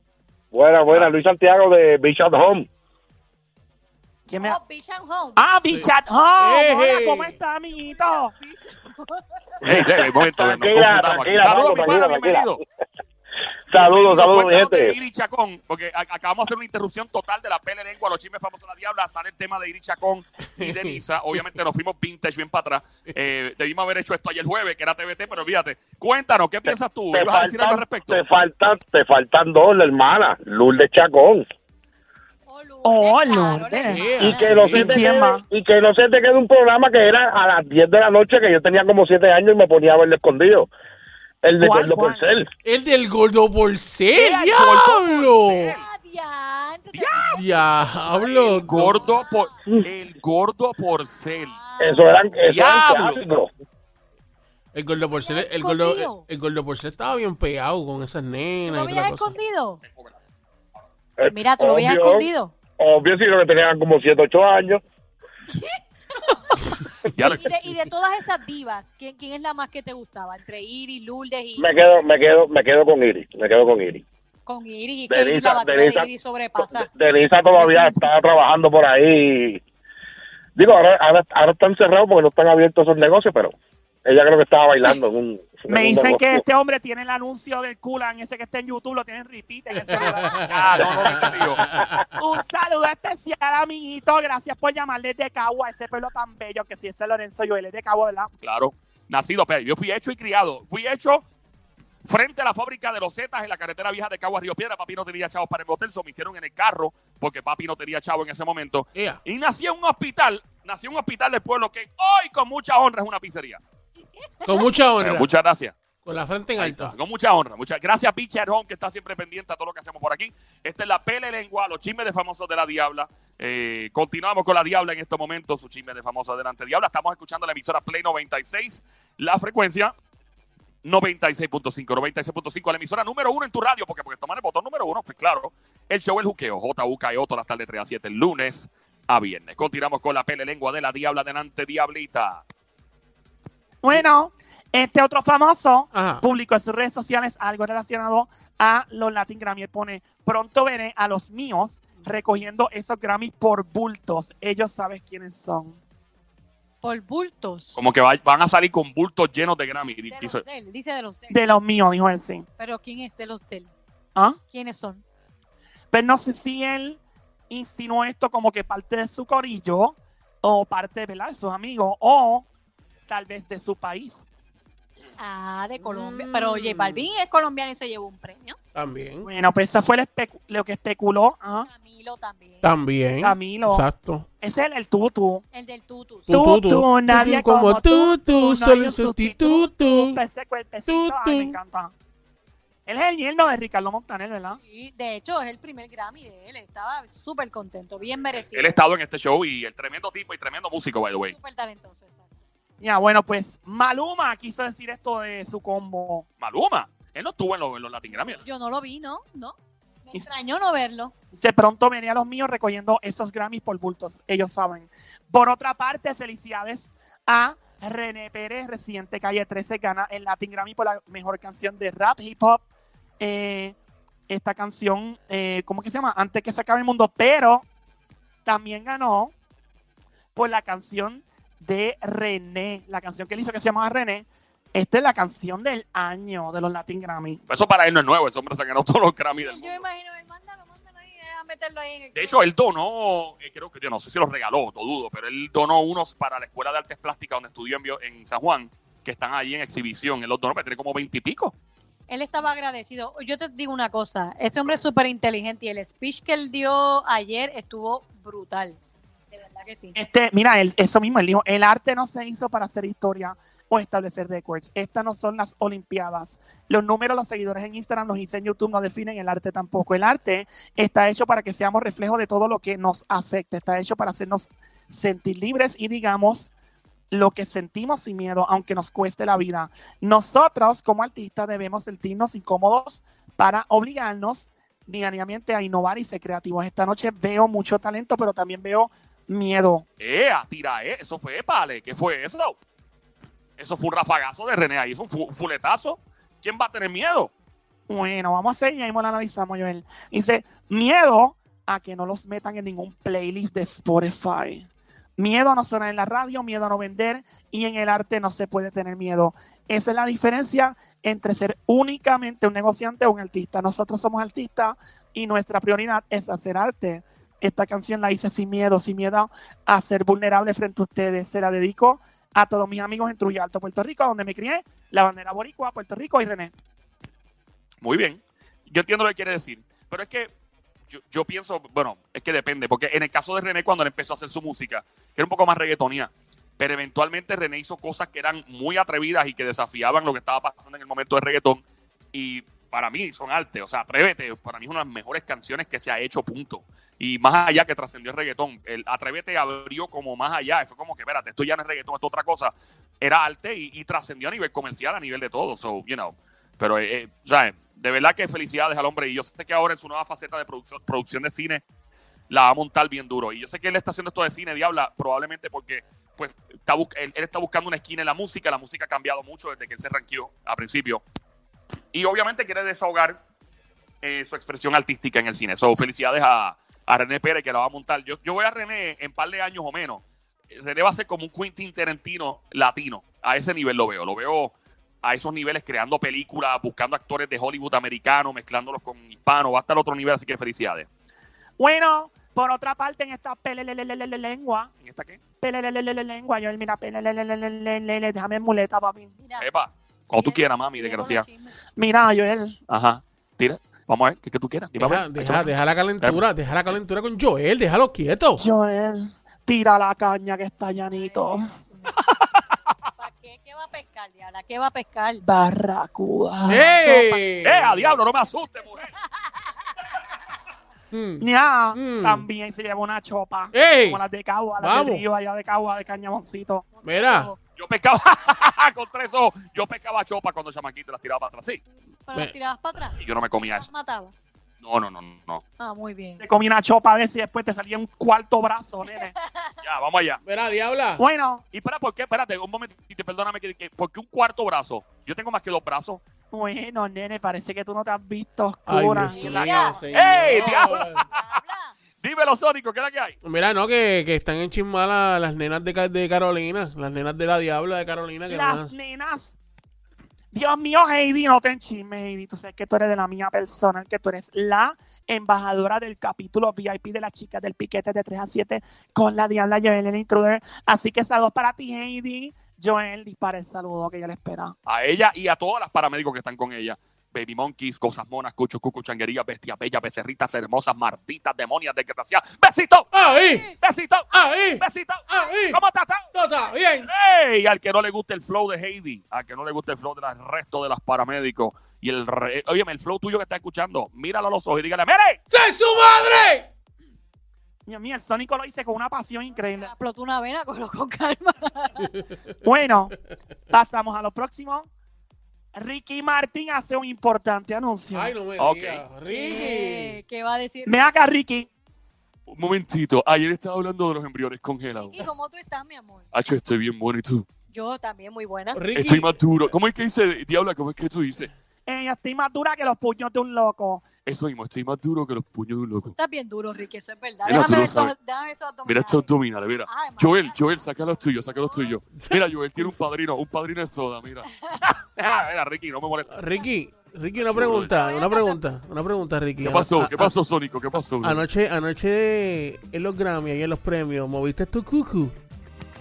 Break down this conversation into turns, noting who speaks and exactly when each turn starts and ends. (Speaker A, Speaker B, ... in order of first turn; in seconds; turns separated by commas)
Speaker A: 0.5-2.7, Speaker B: 4.3-4.6, Speaker C: 4.4-5.4, Speaker B: 5.4-8.3, Speaker D: 5.7-7.4, Speaker C: 7.8-9.4, Speaker E: 9.6-12.6, Speaker A: 9.6-12.6, Speaker A: 13.7-15.0, Speaker E: 13.7-28.2, Speaker D: 20.6-21.5, Speaker A: 27.1-31.5, Speaker C: 32.5-34.6, Speaker B: 32.9-35.4, Speaker D: 33.9-35.0, Speaker A: 34.2-40.7, Speaker A: 41.4-42.5, Speaker B: 41.6-42.3, Speaker D: 42.6-45.8, Speaker E: 44.1-45.9, Speaker C: 45.7-49.5, Speaker E: 46.9-47.4, Speaker D: 47.4-49.0, Speaker E: 48.6-51.6, Speaker C: 51.4-52.1, Speaker A: 51.8-53.5, Speaker E: 52.5-53.2, Speaker D: 54.7-59.4, Speaker C: 55.1-56.2, Speaker C: 58.7-59.8, Speaker E: 59.9-60.2, Speaker A: 61.2-64.8, Speaker C: 61.3-62.5, Speaker C: 65.5-66.6, Speaker E: 67.2-67.6, Speaker C: 67.2-72.4, Speaker A: 71.6-74.0, Speaker C: 74.5-76.9, Speaker A: 75.1-79.6, Speaker C: 77.5-78.1, Speaker A: 80.6-86.4, Speaker B: 85.7-90.6, Speaker D: 89.9-92.0, Speaker E: 90.5-91.7, Speaker B: 92.2-98.3, Speaker E: 98.4-101.2, Speaker E: 102.0-113.6, Speaker C: 114.2-114.7, Speaker D: 114.5-115.3, Speaker E: 115.0-115.8, Speaker D: 116.0-117.0, Speaker E: 116.6-129.9, Speaker E: 130.8-142.4, Speaker B: 143.8-155.8, Speaker D: 145.9-146.2, Speaker C: 156.8-157.8, Speaker E: 157.8-160.4, Speaker C: 160.1-161.4, Speaker B: 161.3-162.5, Speaker C: 162.6-163.7, Speaker C: 164.5-165.0, Speaker B: 165.9-172.5, Speaker B: 173.1-174.2, Speaker C: 175.2-178.6, Speaker D: 175.8-177.1, Speaker D: 178.8-179.3, Speaker B: 179.2-181.7, Speaker C: 181.7-182.7, Speaker D: 182.6-184.3, Speaker B: 183.2-183.9, Speaker B: 184.4-185.4, Speaker C: 185.5-186.3, Speaker D: 186.3-190.2, Speaker B: 186.3-191.9, Speaker D: 190.9-191.6, Speaker B: 192.9-194.6, Speaker C: 194.6-198.8, Speaker E: 198.4-201.3, Speaker C: 201.2-202.3, Speaker B: 202.8-206.3, Speaker E: 206.4-208.4, Speaker C: 208.1-211.1, Speaker B: 211.3-222.6, Speaker B: 223.2-223.8, Speaker B: 224.3-227.7, Speaker B: 228.4-229.3, Speaker B: 230.3-237.4, Speaker E: 237.5-239.8, Speaker C: 239.3-242.4, Speaker E: 242.2-251.6, Speaker C: 252.1-258.8, Speaker C: 259.3-260.0, Speaker B: 260.0-276.5, Speaker B: 277.1-289.9, Speaker E: 290.0-292.6, Speaker E: 293.6-297.3, Speaker B: 297.9-304.7, Speaker B: 305.2-326.5, Speaker E: 327.8-330.3, Speaker E: 330.9-341.6, Speaker E: 342.1-361.6, Speaker E: 362.3-371.0, Speaker E: 371.9-373.2, Speaker E: 374.0-390.9, Speaker B: 391.6-394.7, Speaker E: 394.8-395.2, Speaker B: 395.4-399.1, Speaker C: 399.2-399.5, Speaker E: 399.4-401.3, Speaker C: 400.1-401.6, Speaker B: 401.8-402.6, Speaker E: 402.7-406.2, Speaker D: 404.8-408.4, Speaker B: 408.4-411.5, Speaker C: 410.9-412.0, Speaker C: 413.0-415.2, Speaker B: 415.2-417.0, Speaker D: 416.5-417.8, Speaker C: 416.8-417.2, Speaker E: 417.4-418.9, Speaker C: 419.1-420.0, Speaker D: 420.9-422.3, Speaker B: 421.2-426.7, Speaker D: 423.5-424.0, Speaker D: 424.6-425.1, Speaker C: 426.7-427.4, Speaker D: 426.9-427.3, Speaker E: 427.6-431.6, Speaker C: 432.1-434.1, Speaker E: 433.0-433.7, Speaker E: 434.6-435.4, Speaker C: 435.6-436.2, Speaker B: 436.2-439.1, Speaker C: 438.8-439.6, Speaker E: 439.6-440.2, Speaker D: 440.2-441.1, Speaker B: 441.0-441.4, Speaker E: 441.5-446.0, Speaker B: 446.3-449.5, Speaker D: 448.7-451.1, Speaker C: 449.2-451.8, Speaker E: 449.9-451.4, Speaker E: 452.0-453.2, Speaker D: 453.2-458.7, Speaker B: 458.3-459.4, Speaker B: 460.3-474.5, Speaker E: 474.7-482.9, Speaker D: 482.9-483.5, Speaker C: 483.1-483.4, Speaker E: 483.6-486.1, Speaker D: 484.1-485.6, Speaker D: 486.1-486.9, Speaker E: 486.9-495.2, Speaker D: 495.3-496.5, Speaker B: 497.7-499.7, Speaker C: 499.6-501.9, Speaker B: 502.4-503.0, Speaker B: 503.5-504.7, Speaker B: 505.6-508.2, Speaker D: 507.9-510.0, Speaker E: 508.4-508.8, Speaker C: 509.1-510.9, Speaker B: 510.7-511.5, Speaker E: 512.3-515.1, Speaker C: 514.7-516.1, Speaker E: 516.1-517.3, Speaker C: 517.5-518.6, Speaker D: 518.5-519.2, Speaker E: 518.8-521.3, Speaker B: 521.7-523.9, Speaker E: 524.1-526.0, Speaker C: 525.9-530.4, Speaker E: 527.3-527.9, Speaker E: 528.7-536.3, Speaker C: 531.2-531.8, Speaker D: 536.1-540.1, Speaker E: 537.2-537.7, Speaker C: 537.6-538.4, Speaker E: 539.4-541.2, Speaker D: 541.0-545.1